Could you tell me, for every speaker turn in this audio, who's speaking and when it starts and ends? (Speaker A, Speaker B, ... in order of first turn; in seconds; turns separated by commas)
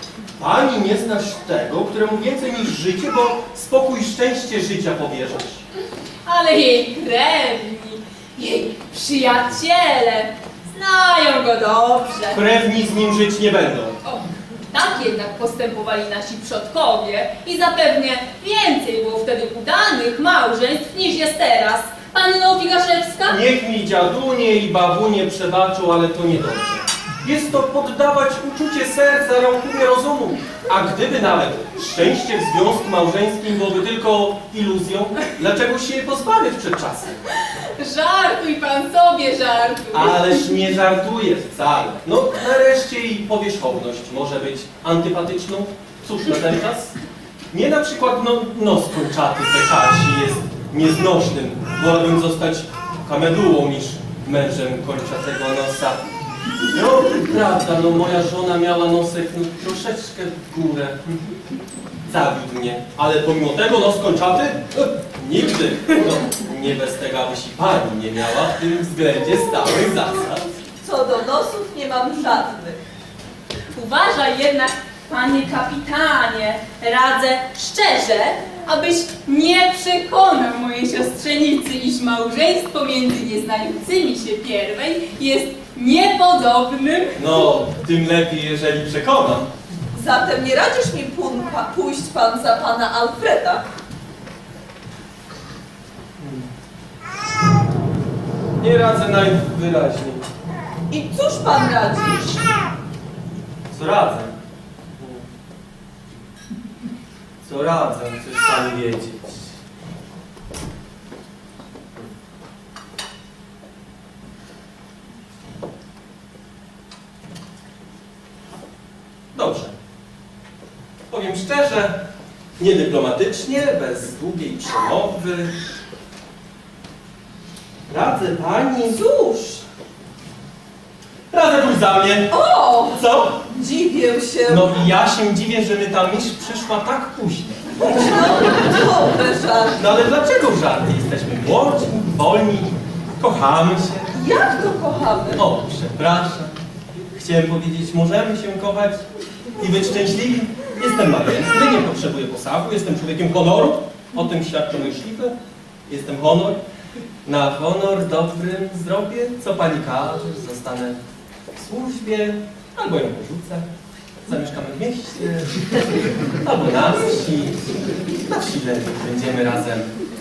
Speaker A: 0.4-5.7, Speaker B: 6.2-12.4, Speaker A: 12.3-14.0, Speaker B: 14.0-23.4, Speaker A: 23.2-37.2, Speaker B: 37.8-40.4, Speaker A: 39.9-46.9, Speaker A: 47.5-56.0, Speaker A: 56.7-61.2, Speaker A: 62.1-70.5, Speaker C: 70.8-72.8, Speaker B: 73.7-87.2, Speaker A: 87.2-89.5, Speaker C: 89.9-93.6, Speaker A: 96.2-96.5, Speaker A: 98.6-100.2, Speaker C: 100.9-102.5, Speaker A: 103.7-104.4, Speaker A: 105.0-105.2, Speaker A: 107.4-109.6, Speaker A: 119.3-119.7, Speaker A: 121.1-122.0, Speaker A: 122.6-125.5, Speaker A: 127.9-129.0, Speaker C: 128.9-129.6, Speaker A: 131.3-132.3, Speaker C: 132.3-134.8, Speaker A: 132.9-133.4, Speaker A: 134.5-138.0, Speaker C: 137.8-139.8, Speaker A: 139.8-144.1, Speaker C: 144.1-145.4, Speaker A: 145.4-146.6, Speaker A: 147.1-149.0, Speaker A: 149.6-155.3, Speaker A: 155.9-156.6, Speaker A: 157.2-161.0, Speaker A: 161.6-163.7, Speaker A: 164.2-165.7, Speaker A: 166.4-167.7, Speaker A: 168.3-169.9